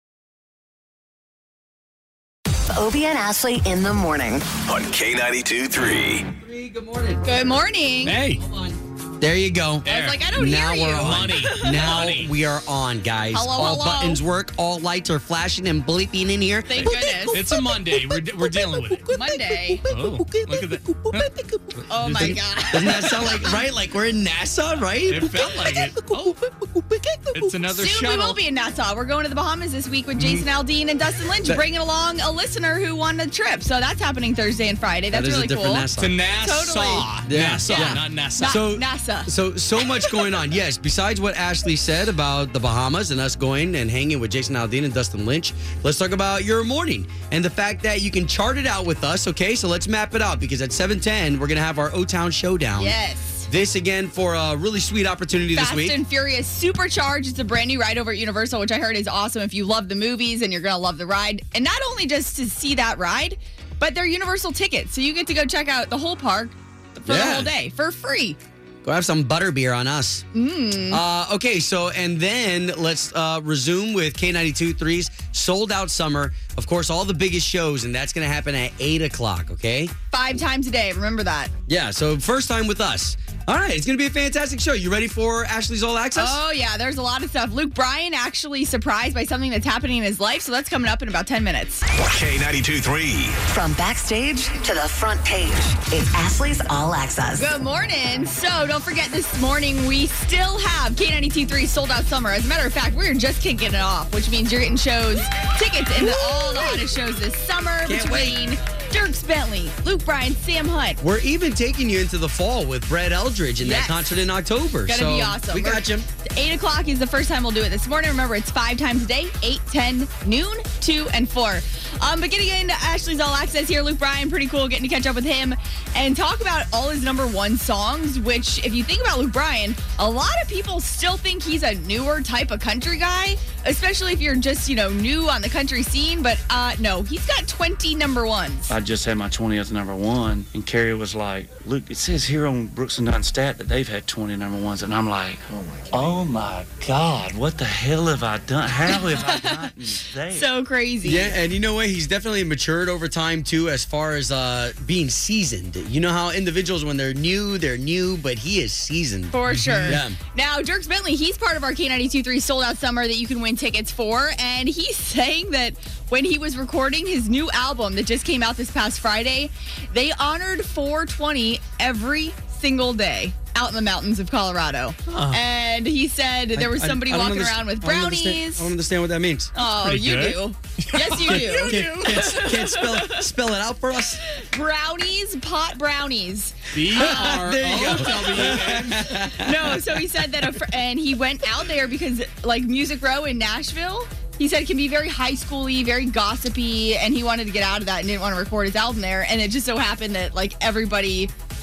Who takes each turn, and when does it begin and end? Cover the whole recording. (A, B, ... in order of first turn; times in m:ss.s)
0:02.7-0:04.5 A
0:04.6-0:06.3 B
0:06.4-0:07.6 C
0:07.2-0:08.2 D
0:08.0-0:08.4 E
0:08.4-0:17.4 C
0:09.8-0:10.2 E
0:09.8-0:11.5 D
0:11.0-0:12.3 E
0:13.3-0:14.2 D
0:16.7-0:17.4 D
0:16.8-0:19.1 E
0:19.1-0:19.8 D
0:19.9-0:22.4 E
0:19.9-0:20.5 C
0:21.9-0:23.5 D
0:22.1-0:25.5 C
0:25.0-0:26.4 E
0:26.8-0:27.2 C
0:27.3-0:28.4 E
0:27.8-0:35.9 D
0:35.1-0:36.1 C
0:36.0-0:38.6 E
0:36.4-0:39.3 D
0:37.2-0:52.9 C
0:52.8-0:53.5 D
0:53.4-0:56.0 C
0:55.5-1:08.4 D
1:07.0-1:07.5 C
1:08.8-1:10.2 C
1:10.3-1:11.0 D
1:10.9-1:19.9 C
1:20.1-1:21.5 D
1:21.7-1:26.4 C
1:26.2-1:31.8 D
1:32.0-1:33.4 B
1:33.4-1:37.5 A
1:37.4-1:51.0 D
1:47.8-1:48.4 C
1:51.0-1:56.0 C
1:53.6-1:54.0 D
1:54.9-2:18.7 D
2:18.7-2:30.5 F
2:28.9-2:29.6 D
2:30.3-2:31.3 D
2:31.0-2:40.2 C
2:39.3-2:58.7 D
2:39.5-2:40.0 E
2:55.1-2:55.4 E
2:56.6-2:59.5 C
2:59.5-3:03.2 D
2:59.8-3:02.1 E
3:01.2-3:04.2 C
3:04.3-3:07.4 D
3:06.7-3:09.3 E
3:06.9-3:10.0 C
3:09.4-3:21.3 D